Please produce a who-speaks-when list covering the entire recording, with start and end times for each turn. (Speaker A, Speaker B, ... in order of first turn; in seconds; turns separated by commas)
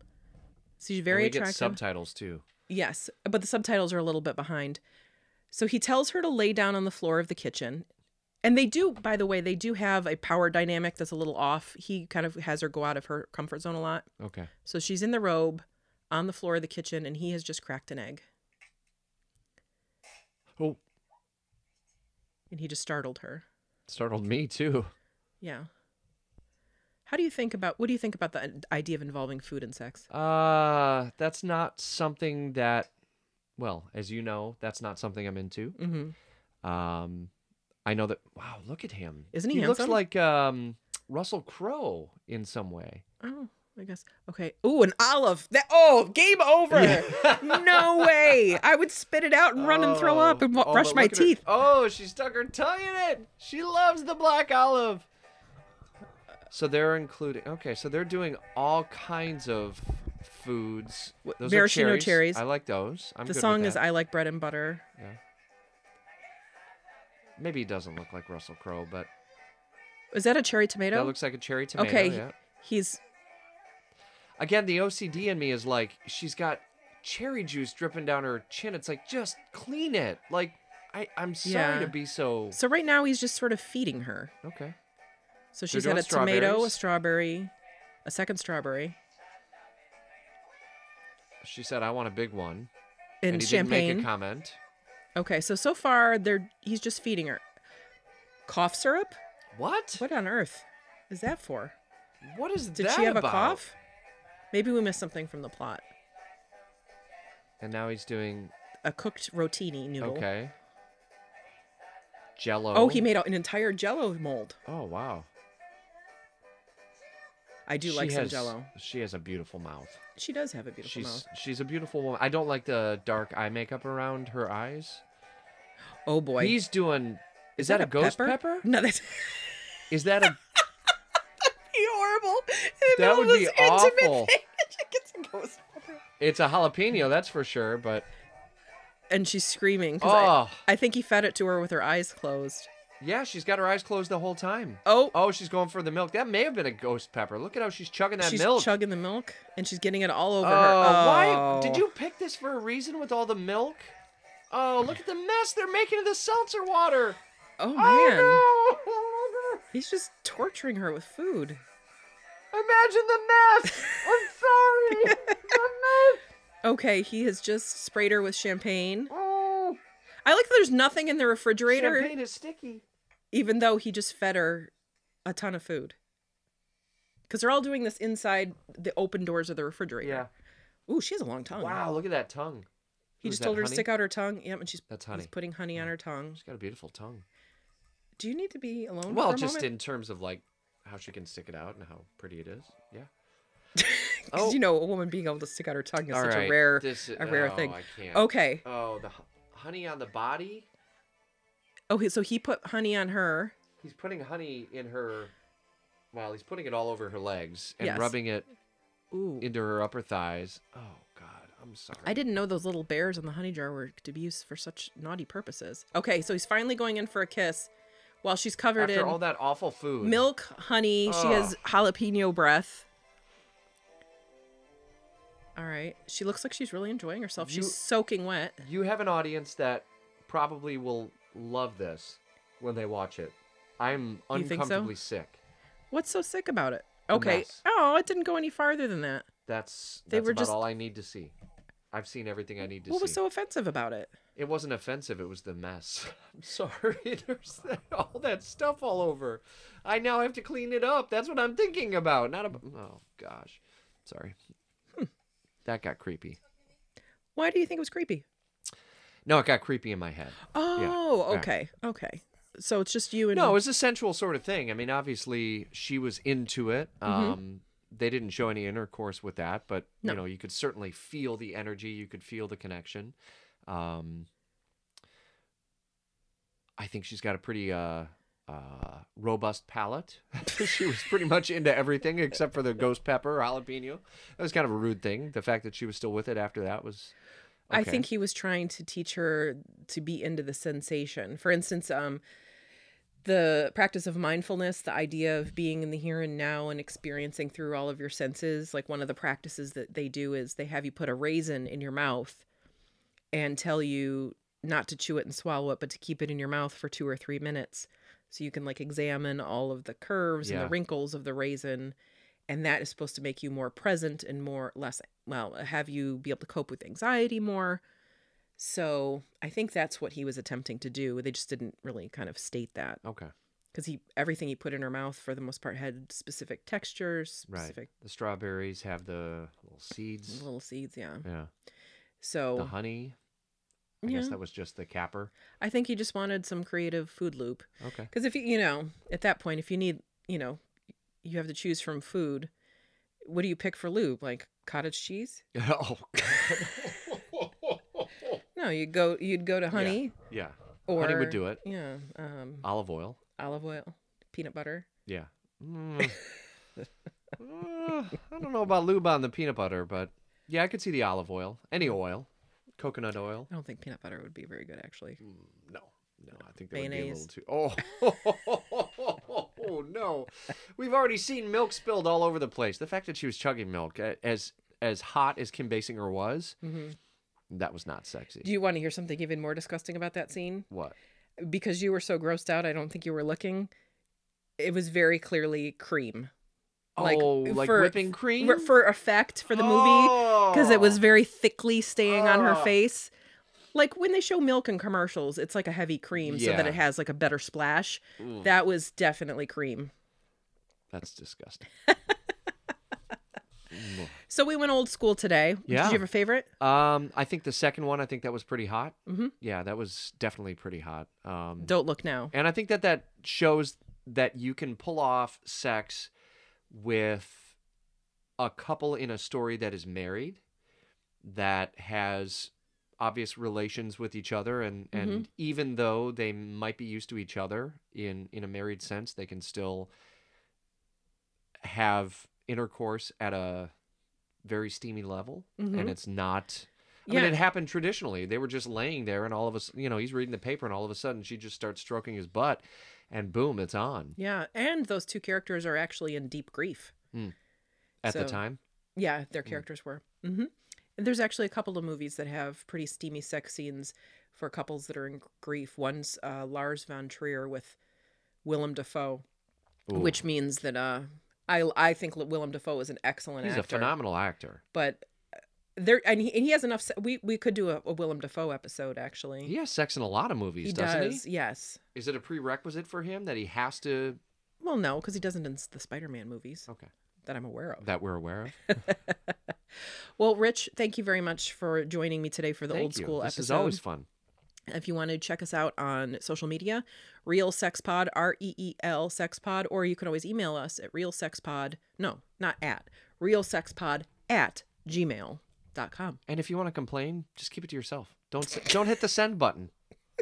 Speaker A: 0.8-1.8, Speaker B: 1.1-2.5, Speaker A: 2.7-4.8, Speaker A: 5.5-7.9, Speaker A: 8.4-14.1, Speaker B: 14.2-14.5, Speaker A: 14.6-18.2, Speaker A: 22.5-23.4, Speaker B: 23.9-24.9, Speaker A: 25.4-25.7, Speaker A: 27.1-30.1, Speaker B: 30.1-32.9, Speaker B: 33.6-35.8, Speaker A: 35.8-36.1, Speaker B: 36.6-37.3, Speaker B: 37.9-43.0, Speaker A: 39.3-40.0, Speaker A: 43.2-51.4, Speaker B: 46.7-48.5, Speaker B: 49.6-55.1, Speaker B: 56.5-63.8, Speaker A: 61.2-62.4, Speaker A: 63.3-64.8, Speaker B: 67.4-69.1, Speaker A: 70.1-71.2, Speaker B: 70.9-72.3, Speaker A: 71.8-73.0, Speaker B: 74.4-82.6, Speaker A: 81.4-82.0, Speaker A: 82.5-84.3, Speaker B: 84.4-84.8, Speaker A: 85.5-87.5, Speaker B: 85.7-86.8, Speaker A: 88.0-89.0, Speaker B: 91.4-92.7, Speaker A: 93.2-94.1, Speaker B: 93.3-94.6, Speaker A: 95.2-97.4, Speaker A: 98.5-99.2, Speaker B: 99.5-100.0, Speaker A: 100.0-101.8, Speaker B: 102.2-103.6, Speaker A: 102.8-103.8, Speaker A: 104.5-105.8, Speaker B: 107.6-108.5, Speaker A: 108.8-110.2, Speaker B: 110.0-110.5, Speaker B: 112.4-113.1, Speaker A: 112.7-114.6, Speaker B: 114.7-115.3, Speaker A: 117.7-118.7, Speaker B: 117.8-120.0, Speaker A: 120.2-121.3, Speaker B: 120.8-125.0, Speaker A: 126.1-126.6, Speaker B: 126.4-128.7, Speaker A: 127.6-130.4, Speaker B: 129.9-130.4, Speaker A: 131.7-136.0, Speaker B: 133.0-134.3, Speaker B: 136.2-138.1, Speaker A: 139.1-142.7, Speaker B: 140.0-140.6, Speaker B: 143.0-148.7, Speaker A: 144.8-145.2, Speaker A: 148.2-151.8, Speaker B: 150.4-153.9, Speaker B: 154.5-157.2, Speaker A: 157.6-158.5, Speaker B: 157.8-159.6, Speaker A: 159.7-161.6, Speaker B: 162.5-166.2, Speaker A: 165.0-165.4, Speaker A: 166.6-169.1, Speaker B: 169.1-169.8, Speaker A: 170.2-172.1, Speaker B: 171.7-172.8, Speaker A: 173.3-174.7, Speaker A: 175.2-176.0, Speaker A: 177.3-180.3, Speaker B: 180.0-180.3, Speaker A: 180.9-181.8, Speaker B: 181.6-182.7, Speaker B: 183.2-183.9, Speaker A: 183.2-186.4, Speaker B: 184.9-185.3, Speaker B: 186.4-187.2, Speaker A: 188.2-189.7, Speaker B: 189.1-193.1, Speaker A: 193.8-198.6, Speaker B: 194.3-194.6, Speaker B: 196.1-200.7, Speaker A: 201.9-203.5, Speaker B: 203.8-205.3, Speaker B: 206.1-208.5, Speaker A: 207.8-208.2, Speaker A: 209.1-209.5, Speaker B: 209.4-212.2, Speaker A: 212.0-217.7, Speaker A: 218.2-219.2, Speaker B: 218.8-220.2, Speaker A: 220.0-222.9, Speaker B: 221.1-221.6, Speaker A: 225.6-228.6, Speaker B: 227.4-227.8, Speaker B: 228.6-235.4, Speaker A: 234.3-234.9, Speaker A: 235.9-239.3, Speaker B: 237.1-237.6, Speaker B: 239.5-241.3, Speaker A: 240.1-240.6, Speaker B: 241.9-243.2, Speaker A: 242.8-244.2, Speaker B: 244.4-254.4, Speaker B: 255.7-256.4, Speaker A: 257.4-258.2, Speaker B: 259.3-261.5, Speaker A: 260.5-263.6, Speaker B: 263.3-273.1, Speaker A: 267.1-267.4, Speaker B: 273.7-274.3, Speaker B: 276.8-287.1, Speaker B: 287.7-288.1, Speaker A: 287.7-292.2, Speaker A: 293.2-302.4, Speaker A: 303.3-312.0, Speaker B: 310.4-310.8, Speaker A: 312.5-317.8, Speaker A: 318.6-323.0, Speaker B: 323.0-323.3, Speaker A: 323.7-327.9, Speaker B: 327.5-330.5, Speaker A: 330.3-331.3, Speaker B: 331.2-331.5, Speaker A: 332.2-332.7, Speaker B: 332.6-333.2, Speaker A: 334.0-334.4, Speaker B: 334.0-335.3, Speaker A: 335.6-340.6, Speaker B: 337.8-338.1, Speaker A: 341.2-342.5, Speaker A: 343.2-345.4, Speaker B: 345.5-348.4, Speaker A: 346.3-346.6, Speaker A: 348.6-350.2, Speaker B: 349.7-351.6, Speaker A: 350.9-352.7, Speaker B: 352.6-353.2, Speaker A: 353.4-354.9, Speaker B: 355.1-356.2, Speaker B: 357.4-363.5, Speaker A: 363.5-365.2, Speaker B: 365.2-376.6, Speaker A: 366.7-367.3, Speaker A: 376.6-377.0, Speaker B: 377.5-378.5, Speaker A: 378.4-380.7, Speaker B: 380.7-381.0, Speaker A: 381.4-383.7, Speaker A: 384.6-386.3, Speaker B: 387.0-388.7, Speaker A: 387.0-393.1, Speaker B: 389.5-391.0, Speaker B: 392.1-392.8, Speaker A: 393.7-399.9, Speaker B: 396.2-396.8, Speaker B: 398.2-398.5, Speaker B: 400.9-401.7, Speaker B: 403.7-404.2, Speaker A: 404.3-406.5, Speaker B: 405.7-406.1, Speaker B: 406.6-411.8, Speaker A: 409.1-409.3, Speaker A: 411.6-412.3, Speaker B: 412.3-416.1, Speaker B: 416.7-417.6, Speaker B: 418.4-420.4, Speaker B: 421.2-429.9, Speaker A: 424.9-425.3, Speaker B: 431.6-433.7, Speaker B: 434.4-444.2, Speaker A: 435.6-436.0, Speaker A: 437.1-437.4, Speaker A: 444.2-446.9, Speaker B: 448.0-448.6, Speaker A: 448.1-448.4, Speaker A: 449.0-457.8, Speaker A: 458.4-459.2, Speaker B: 459.9-460.2, Speaker A: 459.9-463.9, Speaker B: 463.4-464.6, Speaker A: 464.7-465.1, Speaker A: 465.8-469.5, Speaker B: 469.4-471.2, Speaker A: 470.6-471.8, Speaker B: 471.9-474.2, Speaker A: 474.6-476.7, Speaker A: 477.2-477.9, Speaker B: 477.8-478.8, Speaker A: 478.7-479.1, Speaker A: 479.9-483.8, Speaker B: 482.7-484.1, Speaker A: 484.7-496.2, Speaker B: 496.3-499.7